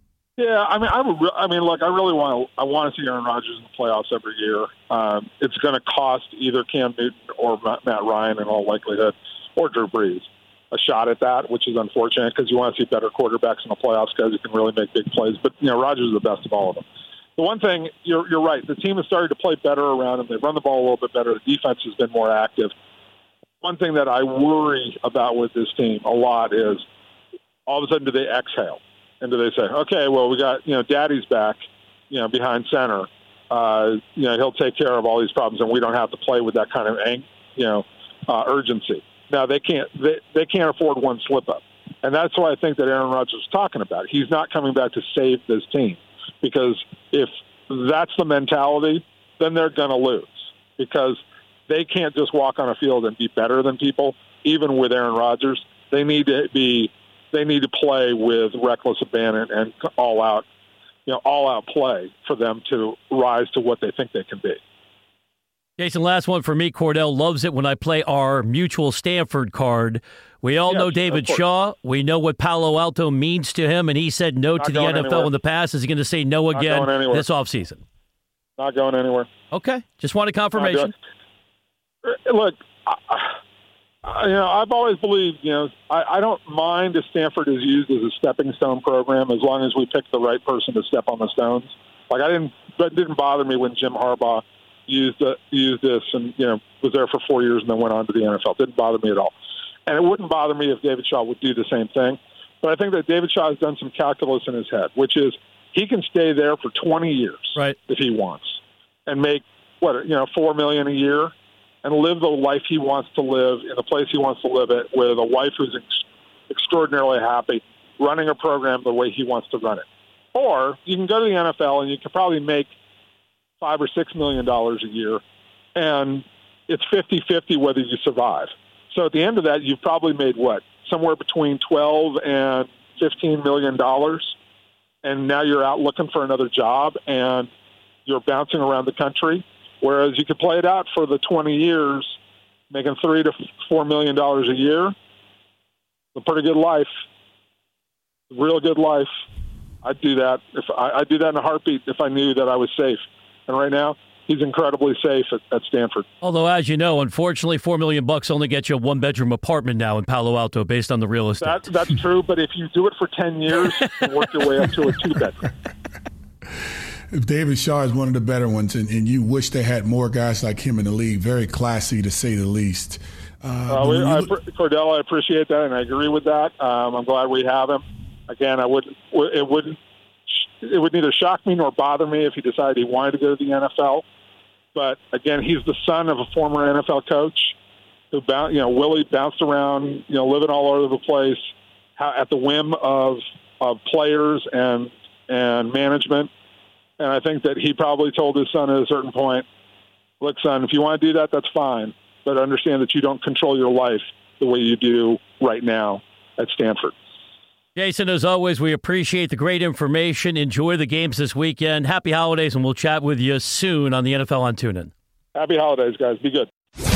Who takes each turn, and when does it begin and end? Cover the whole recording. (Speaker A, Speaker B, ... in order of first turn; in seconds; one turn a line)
Speaker A: 0.4-22.7
Speaker A: 23.6-26.8
Speaker A: 27.6-60.4
Speaker A: 61.0-64.6
Speaker B: 65.8-77.8
Speaker A: 70.7-71.4
Speaker A: 74.6-75.3
Speaker A: 76.5-77.2
Speaker A: 78.6-79.3
Speaker B: 79.5-80.9
Speaker A: 80.5-80.9
Speaker A: 82.0-83.4
Speaker A: 84.0-99.3
Speaker A: 99.8-122.7
Speaker A: 123.6-125.2
Speaker A: 125.8-134.3
Speaker A: 135.0-137.5
Speaker A: 138.1-142.2
Speaker A: 142.7-144.9
Speaker A: 146.1-146.9
Speaker A: 148.3-149.1
Speaker A: 149.8-156.1
Speaker B: 156.2-161.6
Speaker A: 161.4-165.4
Speaker C: 167.1-174.3
Speaker A: 173.7-184.0
Speaker A: 184.7-187.6
Speaker A: 188.1-196.3
Speaker A: 197.0-199.4
Speaker A: 200.2-206.9
Speaker B: 207.8-214.9
Speaker A: 215.3-216.5